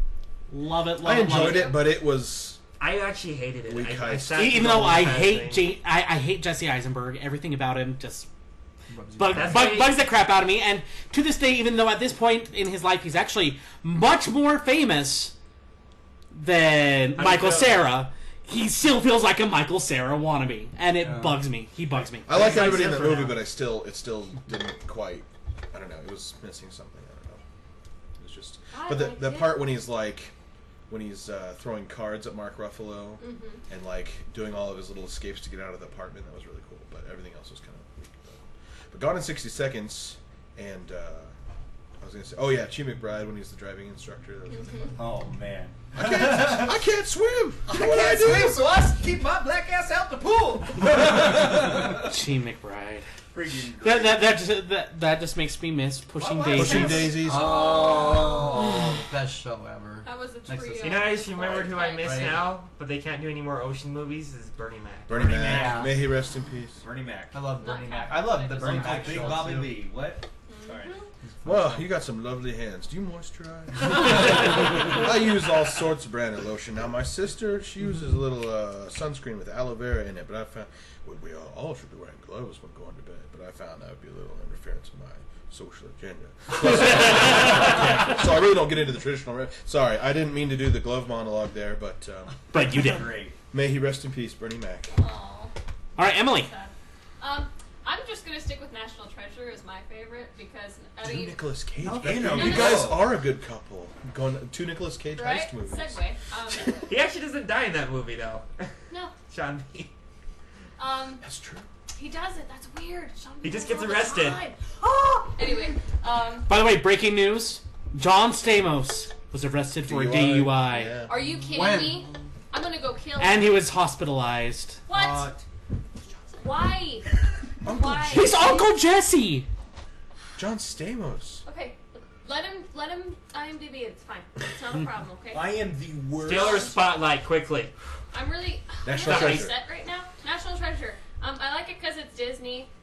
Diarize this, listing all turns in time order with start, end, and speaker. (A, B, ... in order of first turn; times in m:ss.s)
0:00.5-0:01.8 A
0:01.0-0:02.6 B
0:01.4-0:01.7 C
0:02.8-0:05.7 D
0:03.7-0:04.8 B
0:04.4-0:08.3 A
0:08.9-0:09.7 E
0:09.2-0:15.3 A
0:09.3-0:10.0 D
0:16.3-0:22.6 A
0:17.2-0:17.9 D
0:21.0-0:21.4 E
0:22.3-0:27.4 B
0:22.3-0:23.4 D
0:28.2-0:30.3 B
0:28.7-0:29.6 C
0:30.9-0:41.3 B
0:33.2-0:33.6 C
0:42.0-0:45.0 B
0:44.6-0:44.9 C
0:45.0-0:46.8 F
0:46.0-0:48.6 B
0:47.7-0:52.1 F
0:52.0-0:53.1 A
0:53.3-0:54.2 F
0:53.8-0:57.2 A
0:56.2-0:58.6 F
0:56.5-0:57.6 B
0:57.1-1:01.2 E
0:57.3-0:58.4 C
1:00.0-1:02.5 C
1:00.8-1:05.4 D
1:01.4-1:01.7 F
1:02.0-1:02.4 E
1:05.1-1:06.8 B
1:05.1-1:06.0 F
1:05.3-1:06.0 E
1:06.8-1:07.4 F
1:07.3-1:09.8 E
1:07.6-1:09.4 C
1:08.4-1:11.0 F
1:10.5-1:11.1 C
1:11.2-1:11.9 E
1:11.4-1:32.8 B
1:32.5-1:33.1 A
1:32.5-1:33.4 F
1:33.5-1:35.0 B
1:34.9-1:35.5 C
1:36.0-1:36.5 A
1:36.2-1:41.4 C
1:41.0-1:46.0 B
1:41.8-1:43.1 F
1:42.2-1:42.9 C
1:45.2-1:46.9 C
1:46.5-1:46.8 B
1:46.9-1:48.7 D
1:49.3-1:49.9 D
1:50.8-1:51.2 C
1:51.2-1:51.7 B
1:52.0-1:56.5 C
1:53.4-1:54.4 D
1:56.5-2:01.0 A
1:59.8-2:01.2 B
2:01.1-2:03.5 C
2:01.4-2:02.1 E
2:03.2-2:04.8 A
2:04.9-2:05.3 C
2:04.9-2:05.4 F
2:06.4-2:07.1 C
2:07.6-2:08.3 B
2:07.6-2:08.7 C
2:08.1-2:09.5 A
2:10.4-2:11.4 B
2:11.4-2:15.5 C
2:15.3-2:16.8 F
2:16.2-2:17.7 D
2:16.3-2:16.8 C
2:18.1-2:22.7 C
2:18.8-2:19.6 B
2:19.1-2:19.4 D